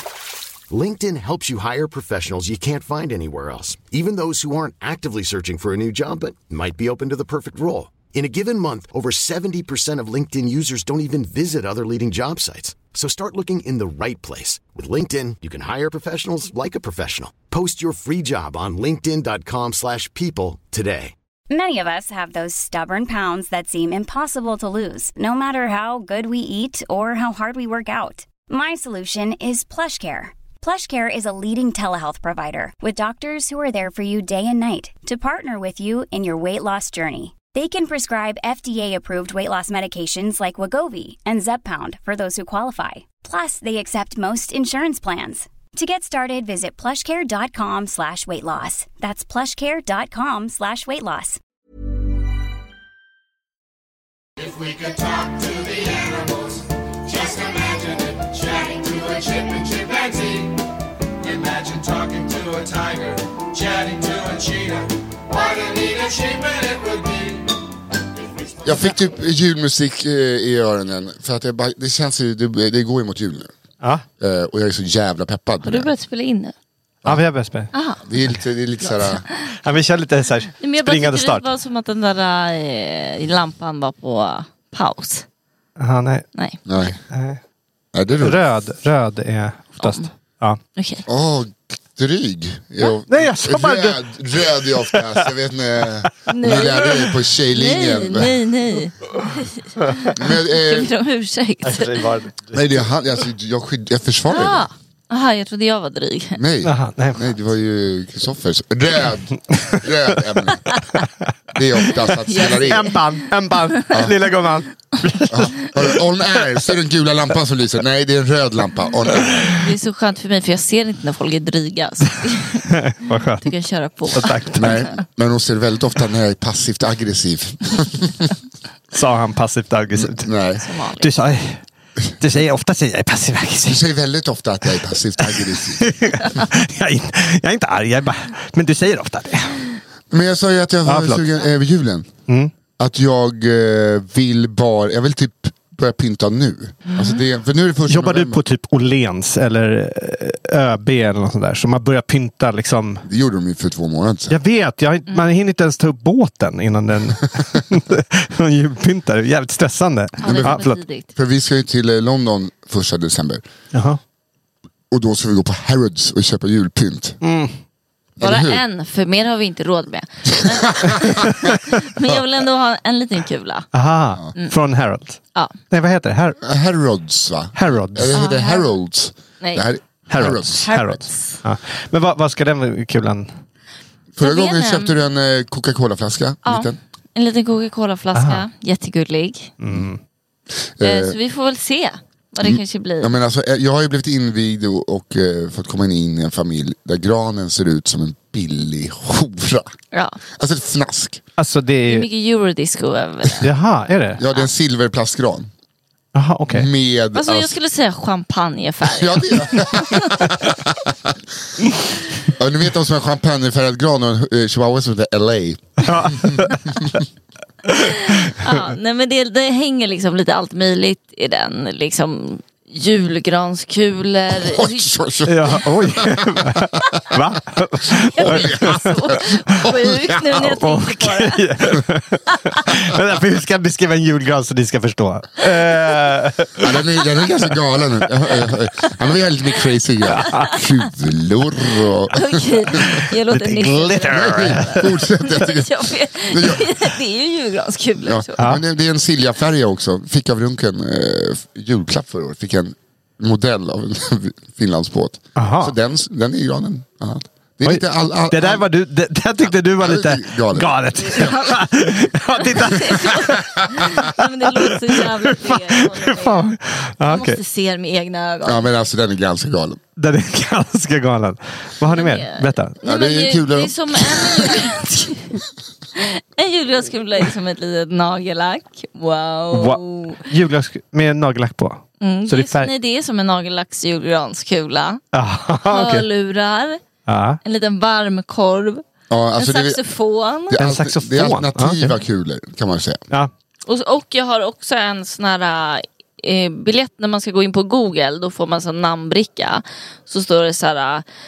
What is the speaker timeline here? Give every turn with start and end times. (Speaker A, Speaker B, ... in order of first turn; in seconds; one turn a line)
Speaker A: 0.7-21.1
Speaker B: 21.5-51.4
Speaker C: 54.7-56.3
Speaker C: 57.2-60.2
Speaker C: 61.7-63.0
Speaker C: 63.6-64.5
Speaker C: 65.5-67.2
Speaker D: 68.6-73.5
Speaker D: 74.2-75.9
Speaker E: 75.6-76.5
Speaker F: 77.0-77.7
Speaker E: 77.7-78.0
Speaker D: 78.1-79.2
Speaker F: 79.6-81.5
Speaker E: 80.6-85.2
Speaker F: 85.8-86.2
Speaker D: 86.7-87.0
Speaker F: 87.1-87.4
Speaker D: 87.9-88.4
Speaker F: 88.2-90.6
Speaker E: 89.8-90.0
Speaker E: 90.8-91.0
Speaker D: 91.1-98.3
Speaker F: 93.1-94.0
Speaker F: 94.7-95.2
Speaker E: 96.3-102.1
Speaker F: 99.8-100.1
Speaker D: 100.2-100.9
Speaker F: 101.6-102.8
Speaker D: 102.5-104.7
Speaker E: 104.3-106.4
Speaker D: 106.3-110.7
Speaker F: 106.6-107.3
Speaker D: 111.5-112.9
Speaker E: 112.3-113.2
Speaker F: 112.4-115.6
Speaker D: 115.3-119.6
Speaker E: 119.6-122.7
Speaker F: 122.7-123.5
Speaker E: 123.4-125.0
Speaker F: 124.1-124.9
Speaker D: 124.6-128.3
Speaker F: 128.9-130.3
Speaker D: 129.9-130.6
Speaker E: 130.6-131.1
Speaker F: 131.0-131.6
Speaker F: 132.2-133.8
Speaker D: 133.7-135.8
Speaker F: 135.3-139.8
Speaker D: 140.1-142.1
Speaker F: 140.8-141.3
Speaker D: 142.8-148.4
Speaker E: 146.8-147.2
Speaker F: 147.9-153.1
Speaker D: 153.1-154.3
Speaker F: 154.3-160.8
Speaker E: 160.2-161.1
Speaker D: 160.2-160.6
Speaker D: 161.1-163.4
Speaker F: 163.7-164.0
Speaker D: 164.9-167.2
Speaker F: 167.2-167.5
Speaker D: 168.2-168.6
Speaker E: 168.2-173.7
Speaker D: 170.3-171.5
Speaker F: 171.2-171.6
Speaker F: 173.7-175.2
Speaker F: 175.7-176.4
Speaker D: 176.4-180.7
Speaker F: 177.5-178.2
Speaker E: 178.1-178.7
Speaker E: 179.4-179.7
Speaker F: 180.1-183.3
Speaker E: 180.7-181.4
Speaker D: 184.1-186.8
Speaker E: 184.2-184.9
Speaker E: 186.4-189.5
Speaker F: 188.1-188.4
Speaker F: 189.6-190.0
Speaker D: 190.8-191.2
Speaker E: 190.8-193.1
Speaker D: 192.4-199.7
Speaker E: 199.9-200.2
Speaker D: 200.3-201.2
Speaker F: 201.4-202.1
Speaker E: 201.9-203.4
Speaker F: 203.4-204.2
Speaker D: 204.2-205.5
Speaker F: 206.1-206.7
Speaker D: 206.5-207.5
Speaker E: 207.1-210.3
Speaker D: 208.8-210.9
Speaker D: 212.3-216.3
Speaker F: 215.8-216.9
Speaker E: 217.8-224.9
Speaker D: 224.3-226.4
Speaker F: 225.3-228.8
Speaker E: 228.2-231.4
Speaker D: 228.2-230.4
Speaker F: 230.6-236.8
Speaker D: 236.6-243.0
Speaker F: 240.1-240.6
Speaker E: 242.1-248.5
Speaker F: 243.0-245.0
Speaker D: 244.0-246.7
Speaker D: 248.0-258.6
Speaker F: 255.3-255.8
Speaker F: 257.6-267.4
Speaker D: 259.8-260.7
Speaker E: 261.1-261.6
Speaker E: 262.4-266.5
Speaker E: 267.0-268.6
Speaker D: 268.4-269.8
Speaker F: 270.0-272.8
Speaker E: 271.9-275.4
Speaker D: 272.8-274.7
Speaker E: 276.0-280.2
Speaker F: 279.5-282.7
Speaker E: 282.0-285.0
Speaker F: 285.1-286.1
Speaker E: 285.7-286.8
Speaker F: 287.1-287.4
Speaker E: 287.4-288.8
Speaker D: 289.1-289.8
Speaker E: 289.4-290.6
Speaker D: 290.5-293.0
Speaker F: 290.6-291.9
Speaker E: 293.6-301.1